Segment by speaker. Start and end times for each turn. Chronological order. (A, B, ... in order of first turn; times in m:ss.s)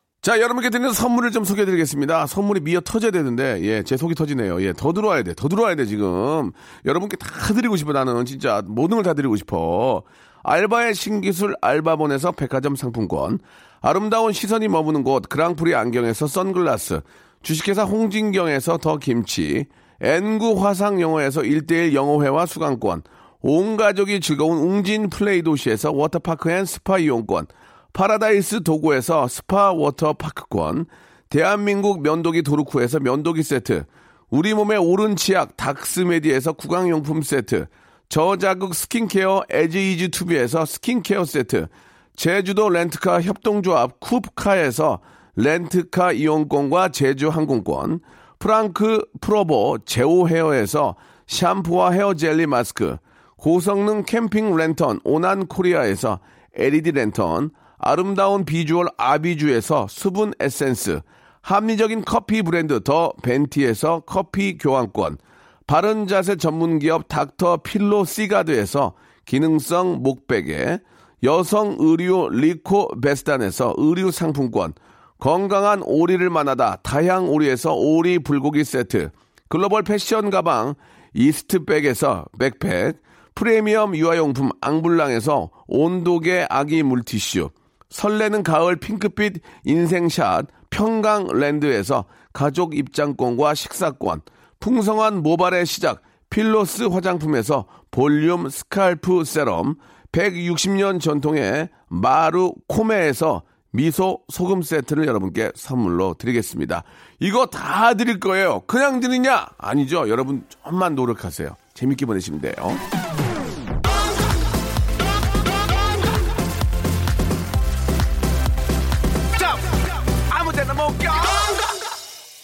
0:00.2-1:52.8 A
1:59.4-1:59.6 A
2:00.2-2:01.6 A